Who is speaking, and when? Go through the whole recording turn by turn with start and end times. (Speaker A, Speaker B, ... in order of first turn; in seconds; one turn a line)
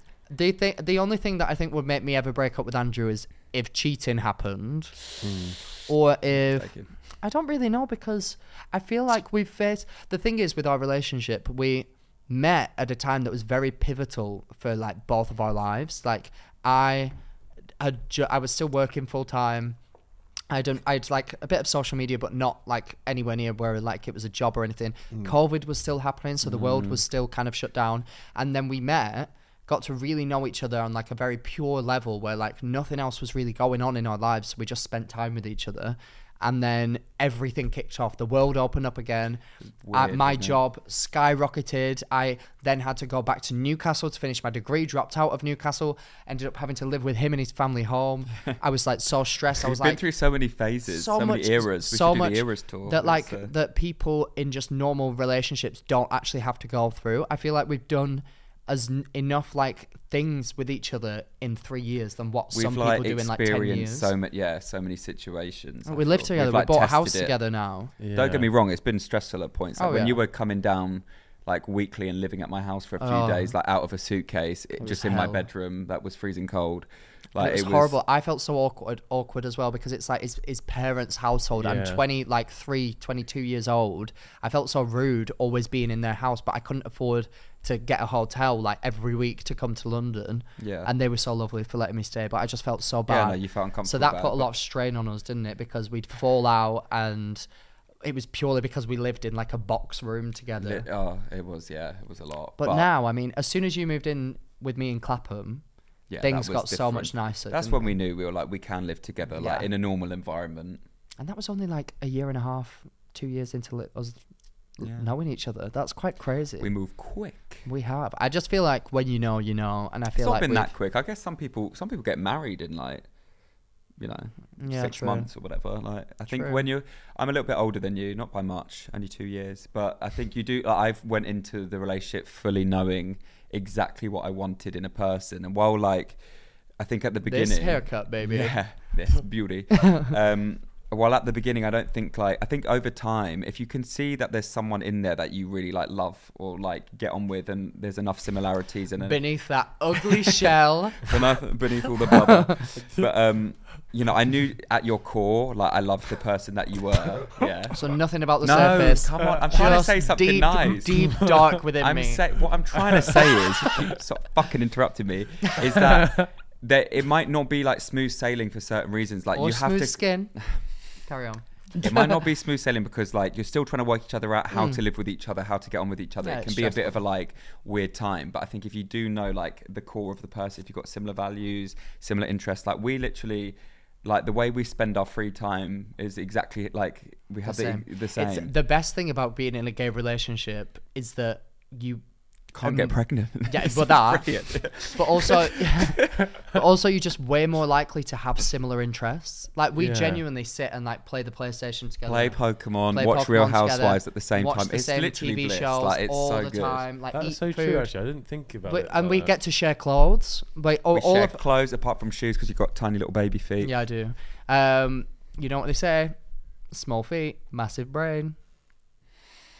Speaker A: 0.3-5.0
Speaker B: 5.2-5.6
Speaker A: 5.9-17.1
Speaker C: 6.5-6.9
Speaker A: 17.8-19.8
Speaker A: 20.5-39.4
Speaker C: 26.4-27.0
Speaker C: 39.8-40.6
Speaker A: 39.9-50.0
Speaker C: 49.6-53.5
Speaker A: 50.9-64.1
Speaker C: 62.5-67.4
Speaker A: 65.8-67.9
Speaker B: 68.0-68.5
Speaker C: 68.1-78.0
Speaker A: 69.8-70.2
Speaker A: 73.0-73.5
Speaker A: 74.8-75.5
Speaker A: 77.3-97.5
Speaker B: 81.6-82.0
Speaker C: 90.6-90.9
Speaker C: 93.1-94.5
Speaker A: 98.0-100.8
Speaker C: 100.6-102.9
Speaker A: 102.6-105.6
Speaker C: 106.1-110.8
Speaker A: 106.2-108.0
Speaker A: 109.4-109.7
Speaker A: 111.2-114.2
Speaker A: 114.8-116.7
Speaker C: 114.8-115.1
Speaker C: 116.6-117.6
Speaker A: 117.7-120.7
Speaker C: 120.2-123.1
Speaker C: 124.0-136.2
Speaker A: 124.6-125.3
Speaker A: 126.3-126.6
Speaker C: 136.8-149.2
Speaker A: 137.2-138.6
Speaker A: 139.8-140.0
Speaker A: 149.0-151.1
Speaker C: 149.9-157.8
Speaker A: 152.3-152.6
Speaker B: 152.7-153.2
Speaker A: 157.8-162.2
Speaker C: 158.4-161.2
Speaker B: 159.2-159.4
Speaker C: 161.7-170.6
Speaker B: 162.8-163.5
Speaker B: 165.6-166.3
Speaker A: 169.3-170.3
Speaker A: 171.1-171.4
Speaker C: 171.8-188.5
Speaker A: 174.5-174.8
Speaker A: 176.2-177.0
Speaker A: 187.4-192.0
Speaker C: 192.5-196.2
Speaker A: 192.6-202.4
Speaker B: 199.8-200.2
Speaker C: 202.1-206.8
Speaker A: 202.9-207.9
Speaker B: 207.1-209.3
Speaker A: 208.7-211.4
Speaker C: 210.9-213.7
Speaker A: 213.6-216.2
Speaker A: 216.7-218.3